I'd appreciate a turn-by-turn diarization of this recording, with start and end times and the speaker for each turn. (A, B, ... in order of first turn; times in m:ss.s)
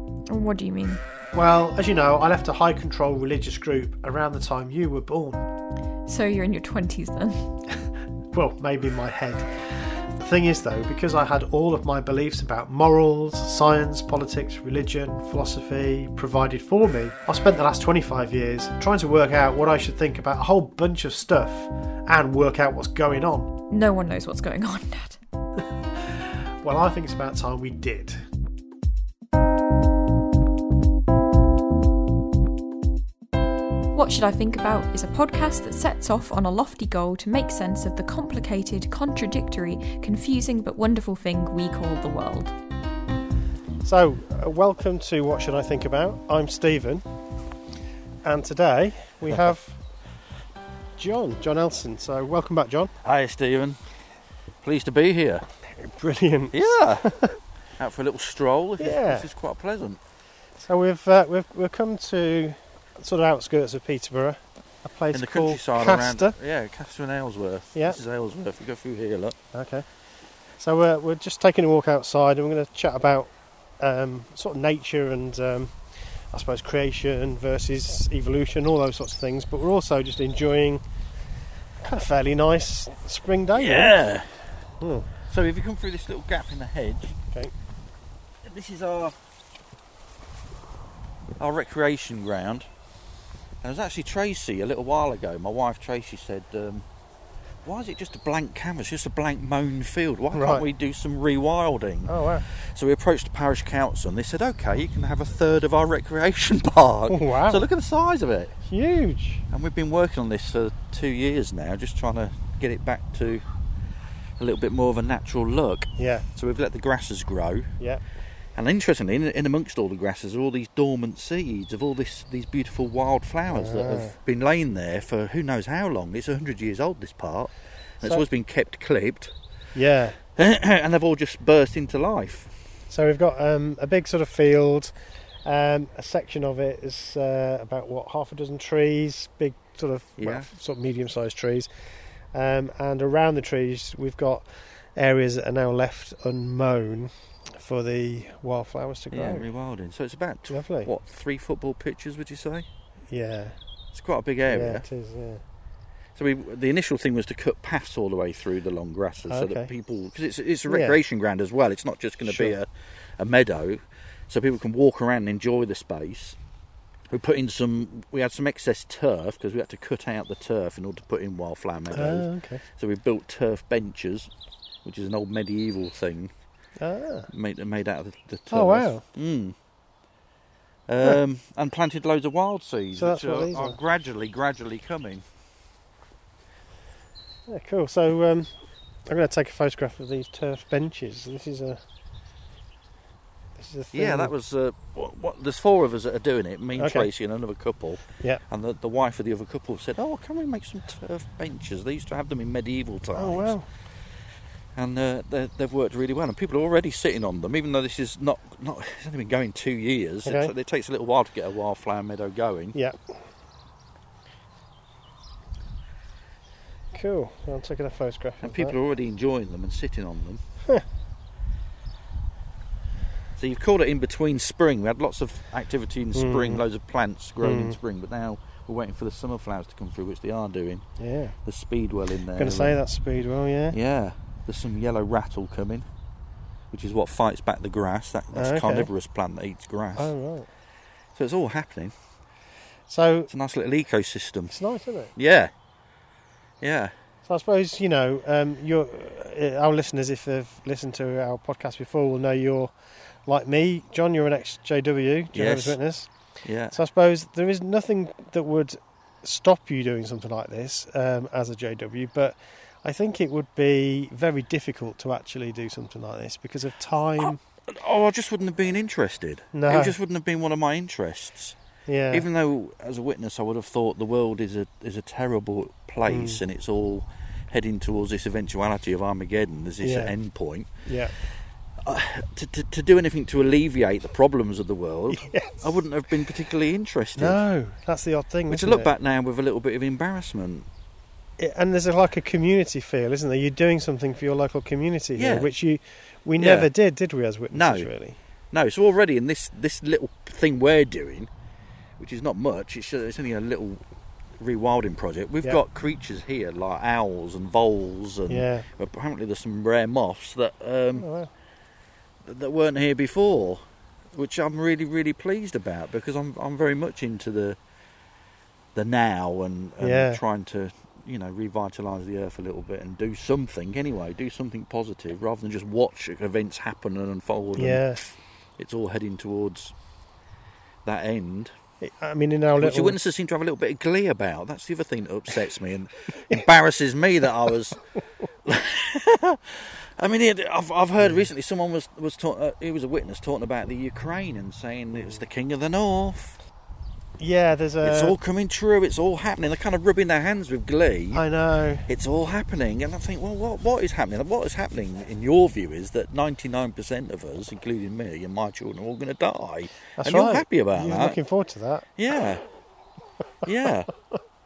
0:00.3-0:01.0 A
0:01.4-0:05.4 B
0:06.1-0:07.4 A
0:08.3-0:09.5 B
0:10.2-0:23.5 B
0:23.7-0:25.2 A
0:26.0-0:28.2 B
0:33.9-0:42.5 A
0:43.8-0:47.0 B
0:48.2-0:49.8 B
0:51.0-0:52.9 B
0:53.0-0:53.8 C
0:54.6-0:55.4 C
0:55.8-0:57.4 B
0:56.5-0:57.1 C
0:57.8-1:00.0 C
0:58.8-0:59.3 B
1:00.6-1:06.4 B
1:05.1-1:09.4 C
1:07.7-1:08.0 B
1:09.5-1:09.9 B
1:10.6-1:15.8 B
1:16.3-1:20.8 B
1:21.8-1:24.0 B
1:23.6-1:24.3 C
1:24.8-1:25.1 B
1:25.3-1:27.2 C
1:28.4-1:29.2 C
1:31.4-1:32.7 C
1:33.6-1:36.9 C
1:37.6-1:48.6 C
1:40.3-1:40.7 B
1:42.1-1:42.5 B
1:47.1-1:47.6 B
1:48.7-1:49.4 B
1:49.5-1:53.4 C
1:54.4-1:57.7 C
1:56.0-1:56.2 B
1:58.6-2:09.3 C
2:03.5-2:04.2 B
2:09.8-2:10.2 B
2:10.4-2:12.5 C
2:12.9-2:14.9 B
2:15.4-2:21.7 B
2:20.2-2:20.5 C
2:22.3-2:29.5 B
2:29.1-2:32.7 C
2:30.5-2:30.9 B
2:33.1-2:33.6 B
2:33.9-2:34.9 C
2:34.5-2:35.4 B
2:36.2-2:46.4 C
2:39.3-2:39.7 B
2:40.7-2:41.0 B
2:42.2-2:42.6 B
2:47.1-2:54.3 C
2:51.9-2:52.6 B
2:54.8-2:56.3 C
2:56.8-2:57.3 B
2:57.3-2:59.6 C
2:58.5-2:59.0 B
3:00.9-3:05.2 C
3:02.9-3:03.8 B
3:07.5-3:08.5 B
3:09.1-3:11.8 B
3:13.6-3:14.3 B
3:13.9-3:23.6 C
3:16.8-3:17.1 B
3:23.1-3:23.7 B
3:24.8-3:32.8 C
3:30.2-3:30.5 B
3:32.7-3:33.2 B
3:36.9-3:38.8 B
3:38.4-3:40.4 C
3:43.4-3:50.8 C
3:46.1-3:46.6 B
3:47.4-3:47.8 B
3:51.0-3:51.4 B
3:51.4-3:52.8 C
3:52.4-3:53.8 B
3:53.7-3:55.9 C
3:56.7-4:00.1 C
3:58.3-3:58.9 B
4:00.0-4:00.5 B
4:01.2-4:01.9 C
4:02.9-4:03.3 B
4:03.3-4:04.6 C
4:04.5-4:05.1 B
4:05.2-4:05.5 C
4:06.6-4:06.9 C
4:07.2-4:12.7 B
4:13.3-4:16.1 B
4:15.3-4:15.8 C
4:16.4-4:16.8 C
4:16.7-4:27.4 B
4:27.2-4:31.6 C
4:29.5-4:30.0 B
4:31.9-4:32.3 B
4:32.1-4:40.7 C
4:36.1-4:36.4 B
4:39.8-4:40.1 B
4:40.8-4:41.1 B
4:41.8-4:47.4 C
4:45.1-4:45.7 B
4:47.2-4:48.9 B
4:48.5-4:50.7 C
4:51.4-4:58.2 B
4:55.2-4:55.5 C
4:56.4-4:56.7 C
4:57.5-4:57.9 C
4:58.5-5:01.3 C
5:02.0-5:03.8 C
5:04.4-5:11.1 C
5:08.3-5:08.7 B
5:11.0-5:11.3 B
5:12.2-5:17.6 C
5:18.8-5:27.8 C
5:19.8-5:20.2 B
5:27.6-5:28.1 B
5:28.6-5:29.7 C
5:30.8-5:31.5 C
5:31.8-5:33.0 B
5:32.6-5:37.8 C
5:38.4-5:46.4 C
5:47.2-5:48.2 B
5:47.8-5:51.2 C
5:51.1-5:51.9 B
5:51.9-6:01.2 C
6:00.0-6:01.9 B
6:02.0-6:02.4 C
6:03.4-6:03.9 C